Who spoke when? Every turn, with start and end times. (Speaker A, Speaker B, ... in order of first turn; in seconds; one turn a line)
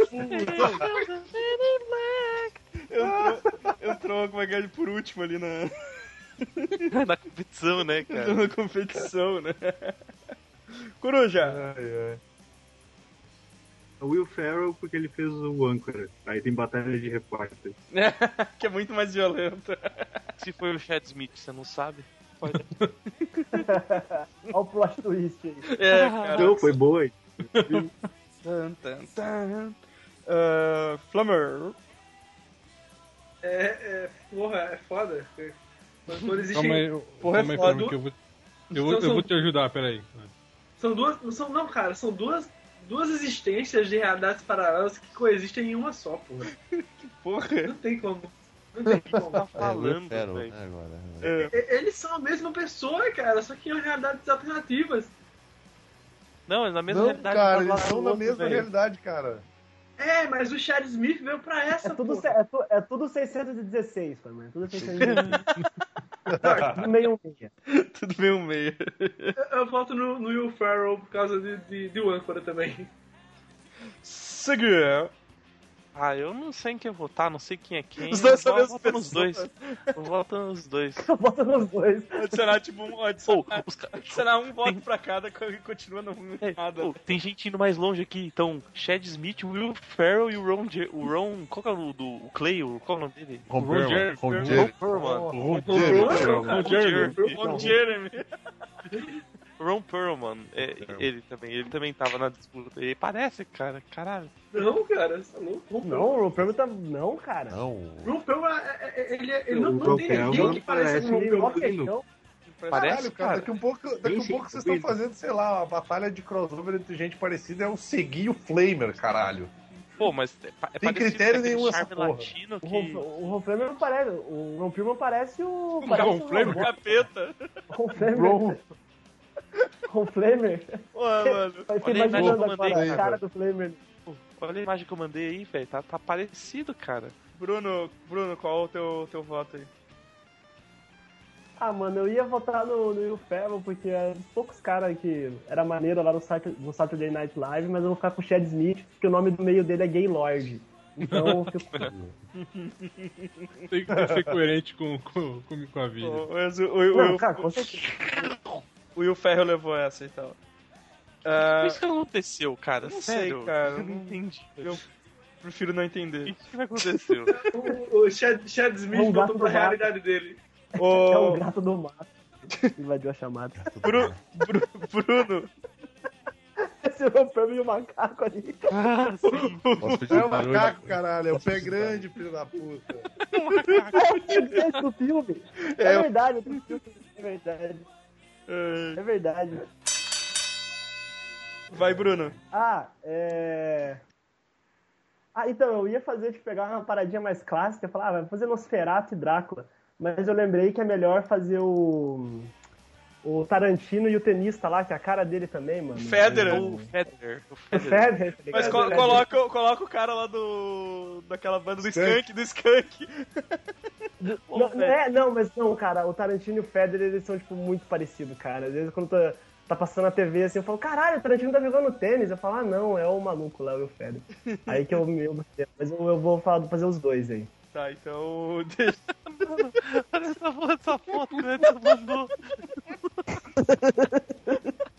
Speaker A: 0.1-0.9
Speaker B: 0.2-2.2
Speaker C: 0.5-0.9
Speaker C: 2.3-5.7
Speaker A: 3.0-3.7
Speaker C: 6.4-6.9
Speaker B: 6.9-8.5
Speaker C: 8.1-9.9
Speaker C: 11.0-11.6
Speaker A: 11.4-12.2
Speaker D: 14.0-17.8
Speaker C: 17.9-20.2
Speaker B: 20.4-22.6
Speaker E: 22.5-22.9
Speaker C: 23.2-23.7
Speaker F: 23.5-25.6
Speaker C: 25.6-26.8
Speaker B: 25.9-26.5
Speaker D: 26.4-27.9
Speaker E: 27.5-27.9
Speaker C: 28.4-31.8
Speaker G: 33.4-36.9
Speaker E: 36.5-38.1
Speaker C: 37.2-37.9
Speaker G: 37.4-38.0
Speaker E: 38.7-40.3
Speaker G: 38.8-39.3
Speaker G: 40.8-46.5
Speaker C: 47.0-47.7
Speaker G: 47.6-49.5
Speaker B: 49.2-50.5
Speaker H: 49.5-51.5
Speaker C: 51.2-51.5
Speaker G: 51.5-55.1
Speaker B: 56.5-58.7
Speaker A: 56.9-59.4
Speaker G: 60.0-62.3
Speaker F: 61.8-65.5
Speaker A: 64.8-65.2
Speaker A: 66.3-66.9
Speaker F: 66.4-67.5
Speaker C: 67.7-69.3
Speaker G: 69.4-72.9
Speaker C: 74.0-75.1
Speaker B: 75.9-81.1
Speaker C: 78.0-79.9
Speaker F: 81.0-82.3
Speaker C: 82.2-87.0
Speaker B: 83.3-84.8
Speaker B: 86.4-93.5
Speaker H: 93.5-96.3
Speaker E: 93.5-94.7
Speaker B: 94.4-97.8
Speaker A: 94.5-96.4
Speaker G: 95.6-97.8
Speaker D: 96.2-96.5
Speaker E: 96.3-97.3
Speaker C: 97.2-98.3
Speaker B: 99.6-104.3
Speaker H: 100.5-101.1
Speaker G: 104.5-106.2
Speaker F: 105.8-107.6
Speaker H: 107.5-108.2
Speaker G: 108.0-111.7
Speaker D: 109.5-111.9
Speaker F: 110.1-112.0
Speaker B: 112.6-113.5
Speaker C: 112.6-113.0
Speaker A: 112.7-119.5
Speaker D: 114.0-114.9
Speaker B: 120.0-123.1
Speaker A: 120.8-122.3
Speaker F: 122.6-126.7
Speaker C: 125.8-127.5
Speaker E: 125.8-126.8
Speaker F: 127.7-128.6
Speaker A: 128.0-128.6
Speaker F: 129.9-133.8
Speaker C: 130.9-131.7
Speaker B: 131.8-133.1
Speaker A: 132.1-133.2
Speaker B: 134.1-137.1
Speaker C: 137.4-139.7
Speaker F: 141.6-151.9
Speaker E: 151.0-151.5
Speaker H: 151.8-152.2
Speaker C: 152.4-153.6
Speaker E: 153.7-156.3
Speaker A: 153.9-154.4
Speaker C: 156.0-157.9
Speaker F: 156.9-158.3
Speaker C: 158.9-160.4
Speaker C: 161.2-161.8
Speaker B: 161.4-164.8
Speaker C: 162.8-164.8
Speaker C: 165.4-166.3
Speaker B: 166.2-167.3
Speaker G: 167.3-170.4
Speaker F: 168.9-169.9
Speaker C: 170.8-171.4
Speaker F: 170.8-172.1
Speaker F: 172.7-173.6
Speaker H: 173.6-174.2
Speaker C: 173.8-175.5
Speaker F: 176.7-178.7
Speaker B: 178.7-179.6
Speaker C: 179.2-180.2
Speaker H: 179.8-182.1
Speaker A: 180.1-183.1
Speaker B: 183.3-184.5
Speaker C: 183.5-184.5
Speaker F: 183.9-187.9
Speaker C: 185.6-186.1
Speaker C: 188.5-189.0
Speaker F: 188.9-189.6
Speaker C: 191.7-192.4
Speaker F: 192.5-194.0
Speaker F: 195.3-202.5
Speaker F: 203.2-206.9
Speaker C: 205.9-206.7
Speaker B: 206.5-208.2
Speaker F: 207.7-209.3
Speaker C: 208.5-213.6
Speaker A: 208.6-209.1
Speaker A: 211.8-212.2
Speaker F: 214.2-227.5
Speaker B: 214.5-214.9
Speaker C: 224.5-225.0
Speaker C: 227.7-229.0
Speaker B: 229.3-232.5
Speaker F: 233.6-234.5